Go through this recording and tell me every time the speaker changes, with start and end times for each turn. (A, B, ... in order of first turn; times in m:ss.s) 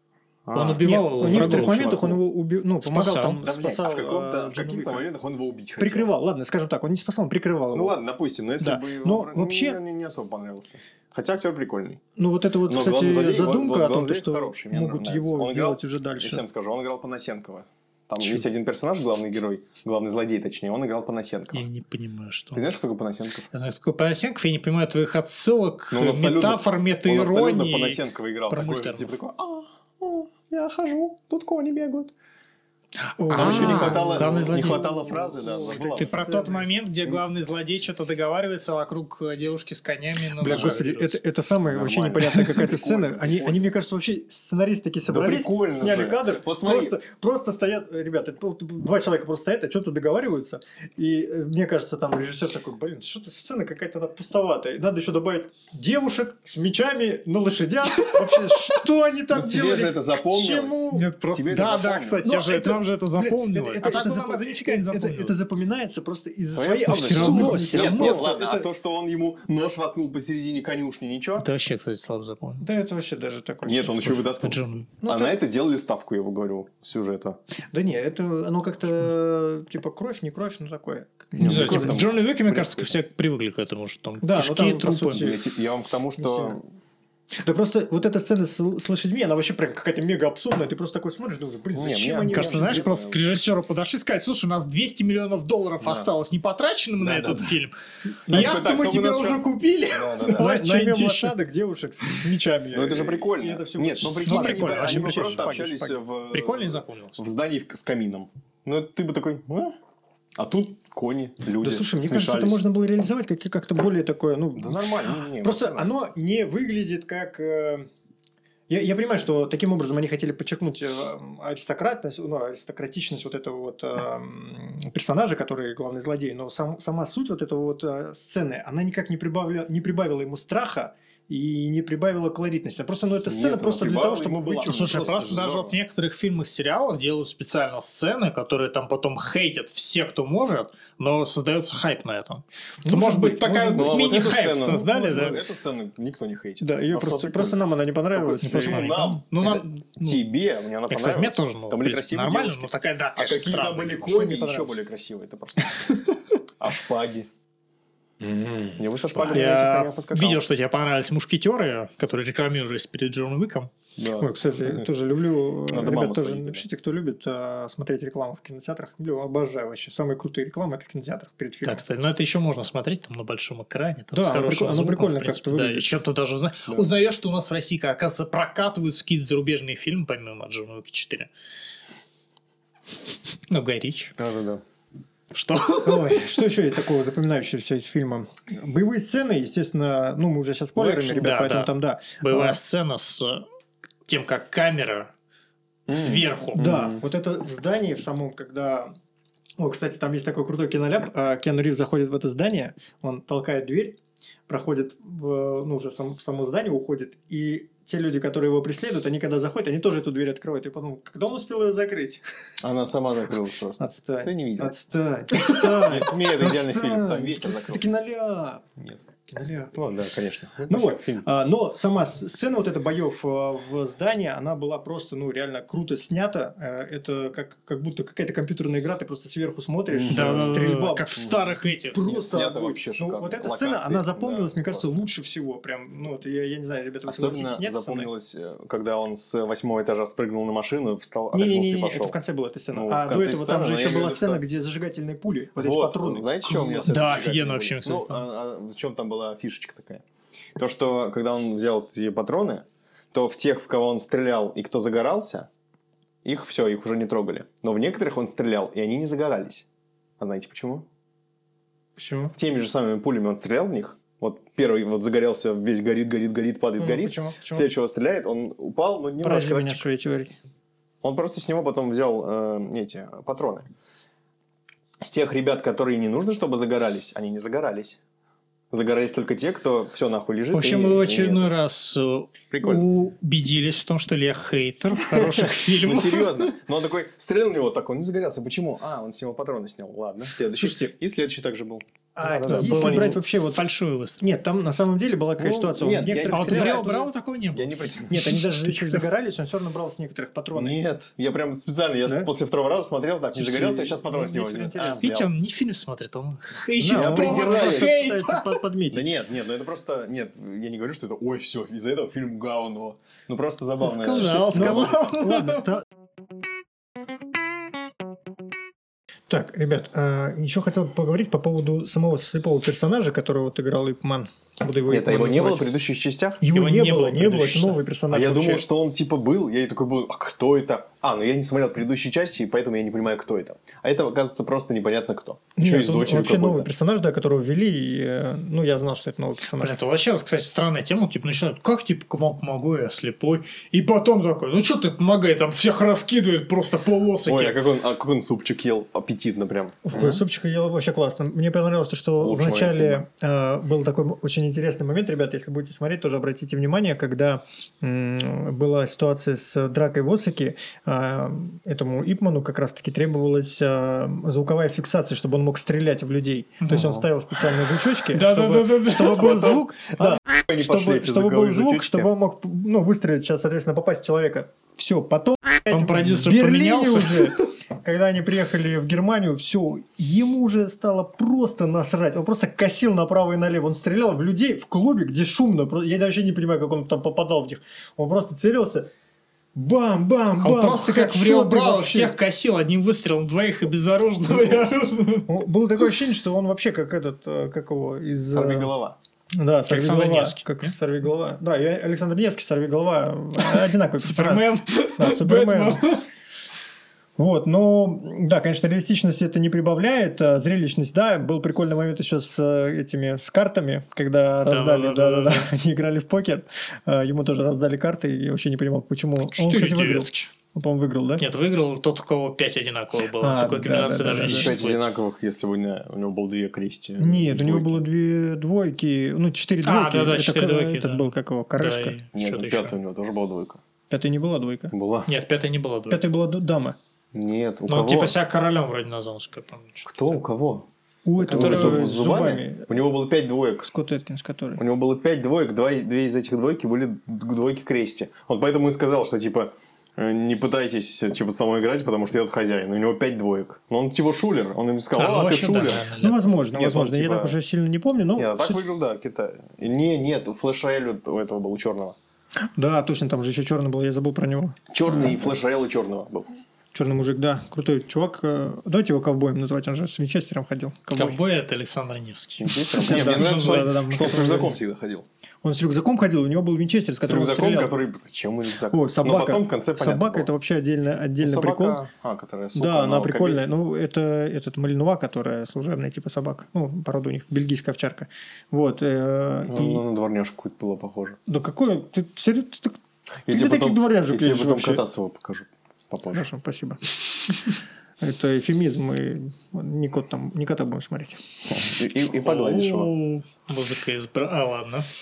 0:00.5-0:02.2 A
0:00.5-0:01.9 B
0:00.8-0:05.1 C
0:02.8-0:03.4 B
0:03.4-0:06.1 A
0:05.8-0:08.0 C
0:07.7-0:12.0 A
0:08.6-0:09.8 C
0:12.2-0:16.4 C
0:12.7-0:21.6 A
0:21.5-0:22.8 B
0:22.5-0:23.5 A
0:23.5-0:29.2 B
0:25.9-0:32.1 A
0:33.1-0:34.8 B
0:33.2-0:36.7 C
0:33.3-0:36.3 A
0:35.9-0:41.2 B
0:40.4-1:01.1 C
0:41.7-0:43.6 A
0:45.1-0:47.0 A
0:59.3-1:02.3 A
1:00.9-1:05.4 B
1:02.2-1:08.7 C
1:06.5-1:11.5 A
1:06.8-1:08.3 B
1:11.4-1:12.6 B
1:12.6-1:14.2 C
1:13.7-1:17.4 A
1:14.2-1:14.9 B
1:15.0-1:15.4 C
1:17.7-1:22.0 C
1:21.4-1:23.0 A
1:21.4-1:25.2 B
1:24.2-1:25.4 C
1:25.1-1:26.6 A
1:26.2-1:26.6 C
1:27.4-1:33.0 C
1:31.7-1:33.5 A
1:32.3-1:37.7 B
1:35.8-1:36.1 A
1:37.0-1:37.6 A
1:38.3-1:38.6 C
1:38.3-1:41.4 B
1:38.3-1:40.6 A
1:40.2-1:46.0 C
1:42.7-1:49.8 A
1:44.2-1:45.7 B
1:46.3-1:47.2 B
1:50.4-1:52.6 A
1:51.6-1:57.9 C
1:54.6-1:56.1 A
1:58.7-2:15.2 C
2:13.3-2:15.8 A
2:14.6-2:25.4 B
2:22.8-2:23.9 C
2:23.7-2:27.6 A
2:24.9-2:25.4 C
2:26.6-2:29.1 C
2:28.1-2:36.0 A
2:28.5-2:30.2 B
2:30.9-2:34.1 B
2:34.0-2:34.8 C
2:36.6-2:37.3 A
2:38.2-2:39.5 C
2:38.8-2:40.4 A
2:39.2-2:43.7 B
2:44.0-2:44.9 A
2:44.2-2:51.8 C
2:45.7-2:46.6 A
2:51.6-3:01.3 B
2:54.1-2:56.0 C
3:03.5-3:04.2 B
3:04.2-3:04.6 A
3:05.3-3:06.3 B
3:05.8-3:12.6 C
3:10.8-3:11.4 A
3:11.2-3:13.4 B
3:14.1-3:15.1 B
3:15.9-3:16.6 B
3:15.9-3:17.0 A
3:16.6-3:18.9 C
3:19.6-3:24.0 C
3:24.5-3:32.2 C
3:32.6-3:34.7 A
3:33.8-3:38.7 C
3:35.3-3:37.8 A
3:39.3-3:39.8 C
3:39.7-3:41.3 A
3:40.7-3:51.1 C
3:49.9-3:51.4 A
3:50.1-3:52.0 B
3:51.6-3:58.1 C
3:52.1-3:55.0 A
3:57.1-4:02.2 A
4:01.3-4:07.1 C
4:02.7-4:04.4 A
4:05.6-4:10.0 A
4:06.8-4:08.2 B
4:10.6-4:15.5 A
4:16.2-4:19.7 A
4:20.2-4:20.9 A
4:22.0-4:22.4 C
4:22.4-4:29.9 A
4:26.8-4:27.7 C
4:29.2-4:30.4 C
4:31.0-4:33.7 A
4:35.0-4:38.0 A
4:38.7-4:41.6 A
4:40.5-4:46.5 B
4:42.5-4:42.9 A
4:45.0-4:53.2 A
4:50.5-4:50.9 C
4:52.2-4:53.6 C
4:52.5-4:54.2 B
4:54.2-4:57.0 C
4:55.4-4:58.4 A
4:56.3-4:59.0 B
4:58.1-5:00.8 C
5:00.6-5:05.3 A
5:03.3-5:05.1 C
5:04.8-5:08.6 B
5:06.8-5:09.1 C
5:06.9-5:08.0 A
5:08.9-5:15.0 A
5:13.8-5:15.8 B
5:14.2-5:15.8 C
5:19.3-5:25.7 C
5:24.9-5:26.4 A
5:26.4-5:28.6 C
5:26.5-5:27.8 B
5:28.1-5:36.7 A
5:35.6-5:39.8 C
5:39.6-5:47.6 B
5:47.3-5:50.2 A
5:49.8-6:28.9 C
5:52.2-5:53.0 A
6:06.6-6:07.0 B
6:08.1-6:09.7 B
6:09.2-6:12.1 A
6:15.7-6:17.5 B
6:29.6-6:32.2 C
6:30.4-6:35.4 B
6:35.3-6:38.7 C
6:38.3-6:39.0 A
6:39.4-6:45.8 C
6:39.7-6:40.7 B
6:43.4-6:46.0 B
6:47.2-7:01.2 C
6:54.5-6:55.5 B
6:59.2-7:00.3 B
7:01.2-7:04.8 B
7:03.2-7:04.6 C
7:04.2-7:07.8 A
7:07.0-7:12.0 C
7:09.6-7:12.7 B
7:12.1-7:13.6 A
7:13.9-7:14.7 C
7:14.7-7:15.1 A
7:15.1-7:16.0 B
7:15.9-7:16.8 C
7:17.1-7:18.2 A
7:17.7-7:20.2 B
7:19.9-7:20.7 A
7:21.1-7:22.7 C
7:21.2-7:23.7 A
7:21.3-7:21.8 B
7:23.7-7:24.6 C
7:24.6-7:35.9 A
7:35.0-7:36.3 B
7:36.0-7:38.6 C
7:36.5-7:37.4 A
7:38.2-7:42.0 A
7:42.6-7:45.2 C
7:44.7-7:46.3 A
7:46.7-7:51.2 C
7:50.9-7:53.7 B
7:52.4-7:55.1 A
7:52.8-7:54.6 C
7:55.4-7:57.8 C
7:57.0-8:00.3 A
7:58.7-8:01.8 C
8:01.2-8:03.4 A
8:02.6-8:09.8 C
8:09.5-8:11.2 A
8:11.3-8:14.8 C
8:13.3-8:16.3 A
8:16.1-8:16.8 C
8:18.0-8:21.2 C
8:21.5-8:22.9 A
8:22.1-8:24.9 B